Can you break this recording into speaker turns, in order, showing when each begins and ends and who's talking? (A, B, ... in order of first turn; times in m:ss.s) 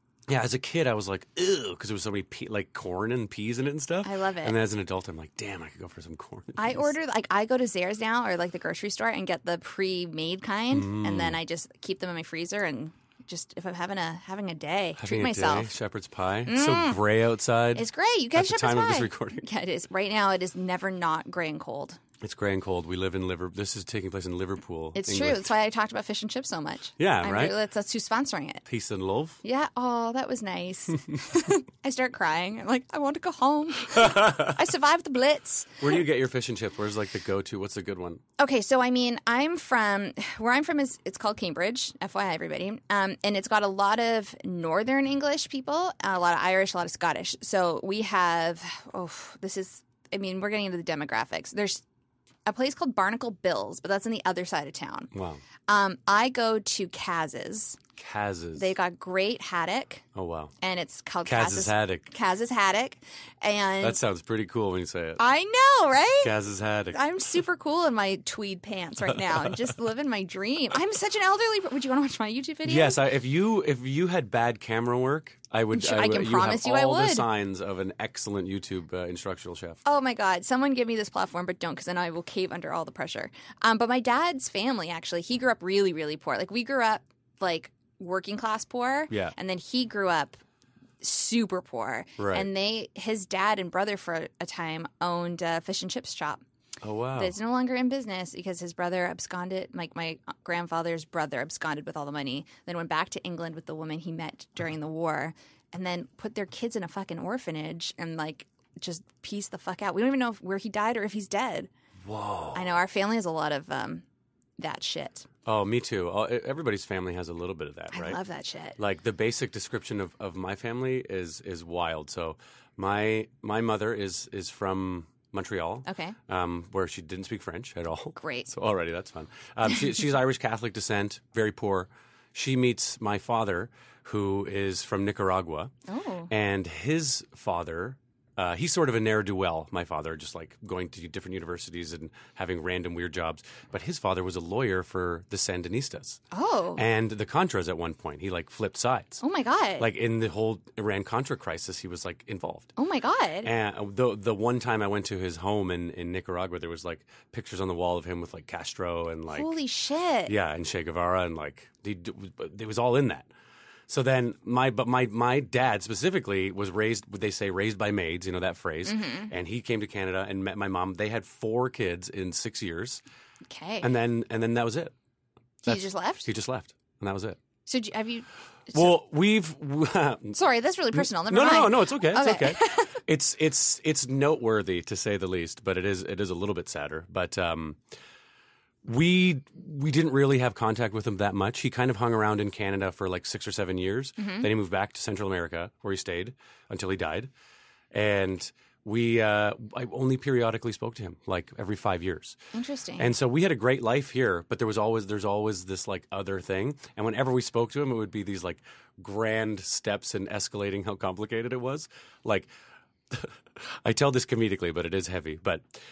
0:00.3-0:06.9 A
0:04.0-0:04.6 B
0:06.6-0:15.7 B
0:10.7-0:11.4 A
0:15.0-0:19.4 A
0:16.5-0:17.0 B
0:17.8-0:22.0 B
0:22.2-0:25.5 A
0:24.9-0:28.6 B
0:27.0-0:27.6 A
0:28.7-0:29.4 A
0:29.4-0:36.0 B
0:33.9-0:34.6 A
0:35.8-0:38.2 A
0:38.4-0:51.8 B
0:52.4-0:55.1 B
0:55.1-0:55.4 A
0:55.7-0:57.8 B
0:58.0-0:58.7 A
0:58.6-1:00.0 B
1:00.1-1:00.5 A
1:00.6-1:04.0 B
1:01.2-1:02.1 A
1:03.8-1:05.2 A
1:05.2-1:06.3 B
1:06.2-1:07.0 A
1:06.9-1:13.0 B
1:09.2-1:09.6 A
1:12.6-1:19.8 A
1:15.7-1:17.2 B
1:19.8-1:30.4 B
1:29.1-1:29.3 A
1:31.0-1:36.4 B
1:32.2-1:32.5 A
1:36.8-1:37.3 A
1:37.2-1:51.7 B
1:52.0-1:52.7 A
1:52.5-1:54.0 B
1:54.6-1:55.3 B
1:55.4-1:58.2 A
1:57.9-1:58.8 B
1:58.8-2:15.7 A
2:05.8-2:06.2 B
2:08.2-2:08.5 B
2:15.9-2:16.3 B
2:16.3-2:26.2 A
2:26.3-2:26.8 B
2:26.8-2:29.2 A
2:29.2-2:29.9 B
2:29.8-2:32.7 A
2:32.8-2:33.5 B
2:33.4-2:39.5 A
2:39.3-2:40.3 B
2:40.3-2:43.3 A
2:43.9-2:53.0 A
2:48.8-2:49.3 B
2:53.5-2:53.9 B
2:53.8-2:54.9 A
2:55.6-2:57.4 A
2:55.6-2:56.3 B
2:57.7-2:58.9 B
2:58.7-3:00.4 A
3:00.3-3:02.9 B
3:00.9-3:07.8 A
3:08.8-3:17.3 A
3:14.2-3:14.5 B
3:17.9-3:22.4 A
3:22.5-3:23.1 B
3:23.0-3:32.5 A
3:33.8-3:35.6 A